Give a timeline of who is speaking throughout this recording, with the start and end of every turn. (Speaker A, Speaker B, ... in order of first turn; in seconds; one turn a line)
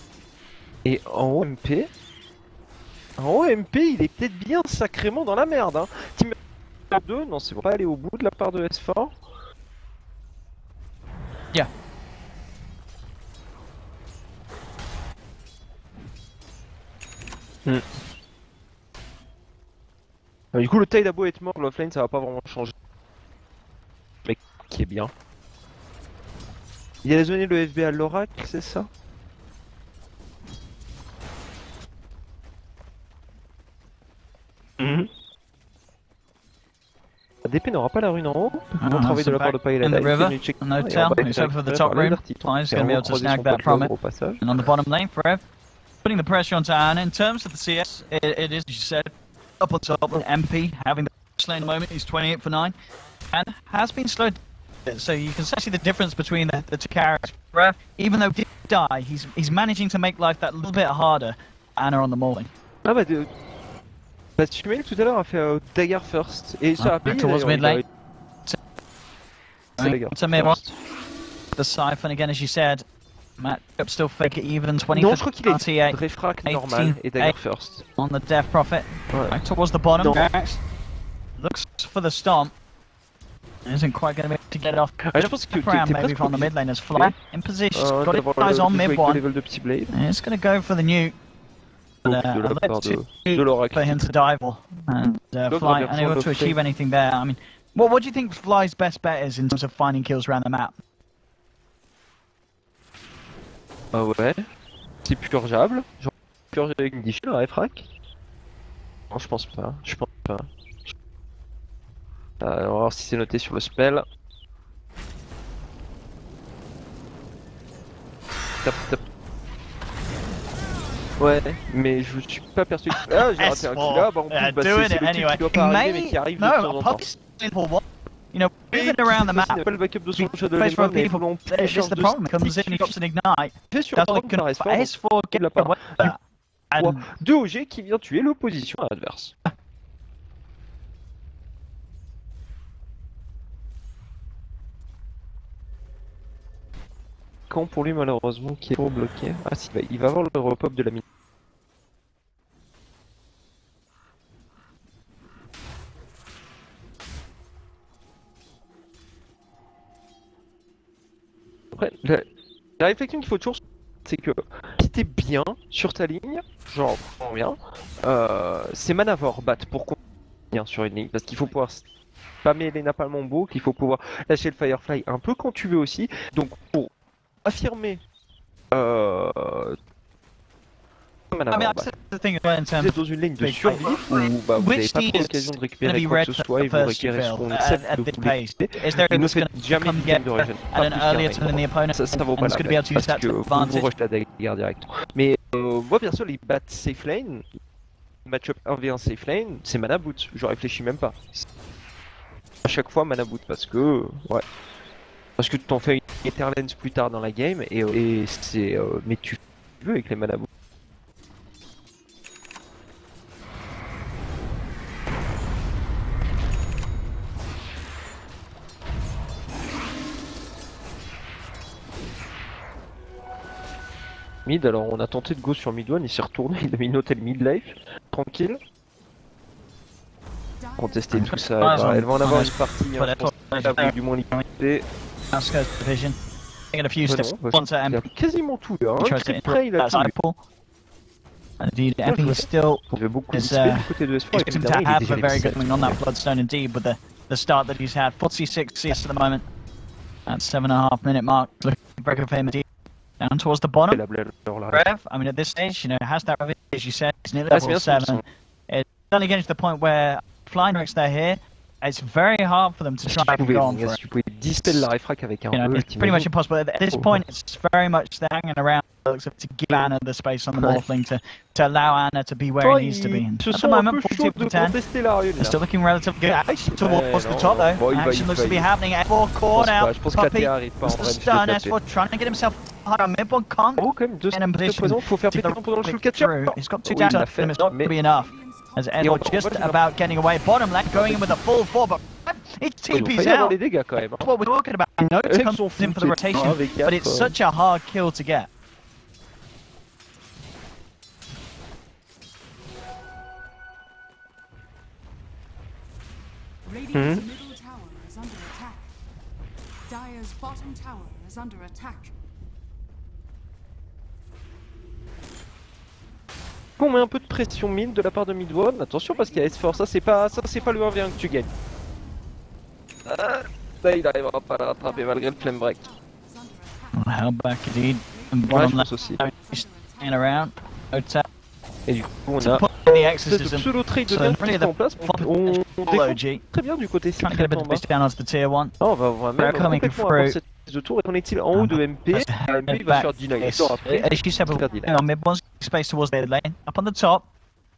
Speaker A: 0.8-1.9
Speaker A: 3.2-6.4
Speaker A: 6.9-9.2
Speaker A: 20.5-22.7
Speaker A: 24.2-25.1
Speaker A: 27.0-28.9
Speaker A: 34.8-35.1
Speaker A: 37.4-44.7
Speaker B: 38.8-45.4
Speaker B: 46.0-52.7
Speaker B: 53.3-62.5
Speaker A: 62.8-63.3
Speaker A: 64.4-67.8
Speaker B: 66.8-67.8
Speaker B: 69.8-70.6
Speaker A: 69.8-70.7
Speaker B: 71.5-72.8
Speaker B: 73.4-77.3
Speaker A: 74.9-77.8
Speaker B: 78.0-80.6
Speaker A: 79.1-79.4
Speaker A: 79.9-80.3
Speaker B: 81.4-82.5
Speaker B: 83.7-89.2
Speaker A: 85.0-87.2
Speaker A: 87.7-89.9
Speaker B: 89.9-91.1
Speaker A: 92.0-94.0
Speaker B: 92.0-100.7
Speaker A: 95.5-96.6
Speaker A: 103.9-104.4
Speaker A: 105.0-107.9
Speaker A: 109.1-110.5
Speaker A: 112.4-114.0
Speaker A: 118.6-119.0
Speaker A: 121.2-127.0
Speaker B: 123.0-129.6
Speaker A: 128.7-132.9
Speaker B: 130.2-136.2
Speaker A: 133.7-136.2
Speaker B: 136.7-137.0
Speaker A: 136.8-139.3
Speaker A: 147.5-151.0
Speaker A: 161.7-162.3
Speaker A: 162.8-169.9
Speaker A: 170.5-171.8
Speaker A: 172.4-176.9
Speaker A: 177.4-178.0
Speaker A: 178.7-179.8
Speaker A: 181.3-181.9
Speaker B: 181.5-193.9
Speaker A: 182.8-197.5
Speaker A: 198.2-201.5
Speaker A: 202.6-204.4
Speaker A: 205.4-210.5
Speaker A: 224.4-228.6
Speaker C: 230.6-231.3
Speaker A: 230.8-234.8
Speaker B: 231.1-233.9
Speaker B: 235.3-236.2
Speaker B: 236.7-238.0
Speaker A: 237.1-240.1
Speaker B: 239.0-240.4
Speaker B: 241.6-249.4
Speaker A: 242.0-246.0
Speaker B: 250.3-252.6
Speaker B: 253.2-254.0
Speaker A: 253.9-254.9
Speaker B: 254.7-264.0
Speaker A: 257.5-258.2
Speaker A: 263.1-266.3
Speaker B: 264.6-264.9
Speaker B: 265.5-274.8
Speaker A: 266.9-267.2
Speaker A: 270.6-270.8
Speaker A: 272.6-275.6
Speaker B: 275.4-298.5
Speaker A: 276.4-278.7
Speaker A: 279.5-281.7
Speaker A: 283.8-287.9
Speaker C: 287.9-289.2
Speaker A: 289.0-289.8
Speaker A: 290.9-291.4
Speaker A: 292.9-294.3
Speaker A: 295.2-297.4
Speaker C: 306.6-308.9
Speaker A: 306.9-307.2
Speaker C: 309.9-312.1
Speaker A: 316.8-321.5
Speaker C: 319.1-321.3
Speaker A: 323.1-325.9
Speaker C: 324.7-327.3
Speaker B: 326.9-331.2
Speaker C: 328.0-330.5
Speaker A: 328.5-329.2
Speaker A: 331.9-332.7
Speaker B: 332.4-336.4
Speaker A: 333.2-337.8
Speaker B: 337.2-338.7
Speaker A: 338.8-344.9
Speaker B: 339.4-340.4
Speaker B: 341.5-347.3
Speaker C: 342.9-345.1